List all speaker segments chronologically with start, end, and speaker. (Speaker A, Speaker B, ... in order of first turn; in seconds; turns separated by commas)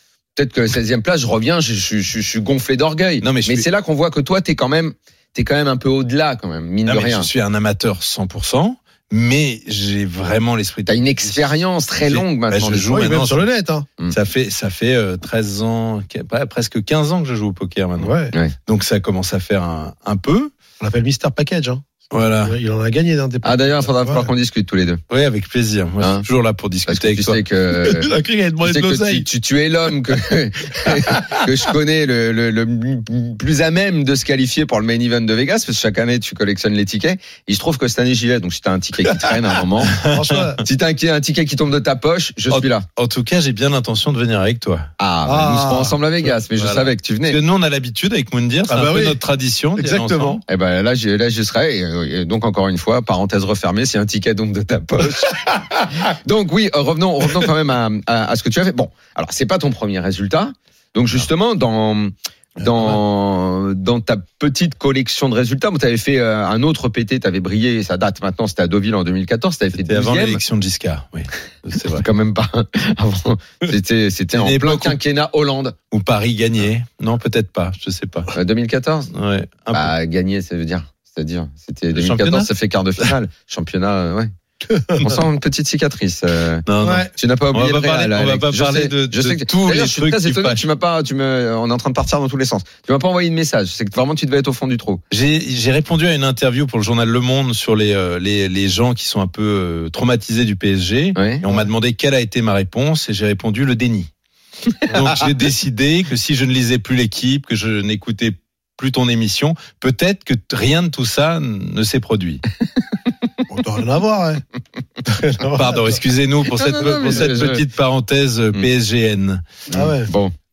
Speaker A: 0.4-7.3, Speaker B: 3.2-3.7, Speaker B: 6.9-13.5, Speaker A: 10.9-12.9, Speaker C: 12.9-13.9, Speaker B: 14.1-18.1, Speaker C: 18.0-18.3, Speaker B: 18.7-20.5, Speaker C: 20.8-21.9, Speaker B: 22.1-22.6, Speaker C: 22.4-24.3, Speaker A: 23.4-25.0, Speaker B: 25.1-27.4, Speaker A: 26.0-26.2, Speaker A: 26.9-40.0, Speaker C: 27.8-29.3, Speaker C: 30.8-31.4, Speaker C: 40.0-40.6, Speaker A: 40.6-42.9, Speaker B: 42.5-44.9, Speaker A: 45.0-47.4, Speaker C: 45.2-46.0, Speaker B: 46.6-50.4, Speaker C: 48.7-49.2, Speaker C: 49.8-50.4, Speaker A: 50.5-70.4, Speaker B: 69.7-72.0, Speaker A: 71.9-75.8, Speaker B: 74.3-75.0, Speaker B: 75.9-78.3, Speaker A: 78.3-79.1, Speaker B: 79.1-79.9, Speaker A: 79.7-84.3, Speaker B: 81.9-82.5, Speaker C: 84.7-85.1, Speaker A: 85.0-95.0, Speaker B: 86.7-90.6, Speaker C: 86.8-87.1, Speaker B: 95.1-104.1, Speaker A: 101.2-101.4, Speaker B: 104.8-112.4, Speaker C: 113.5-114.4, Speaker C: 115.1-116.0, Speaker B: 115.5-119.4, Speaker A: 116.5-117.6, Speaker C: 116.9-117.3, Speaker A: 119.7-120.3, Speaker C: 119.7-120.1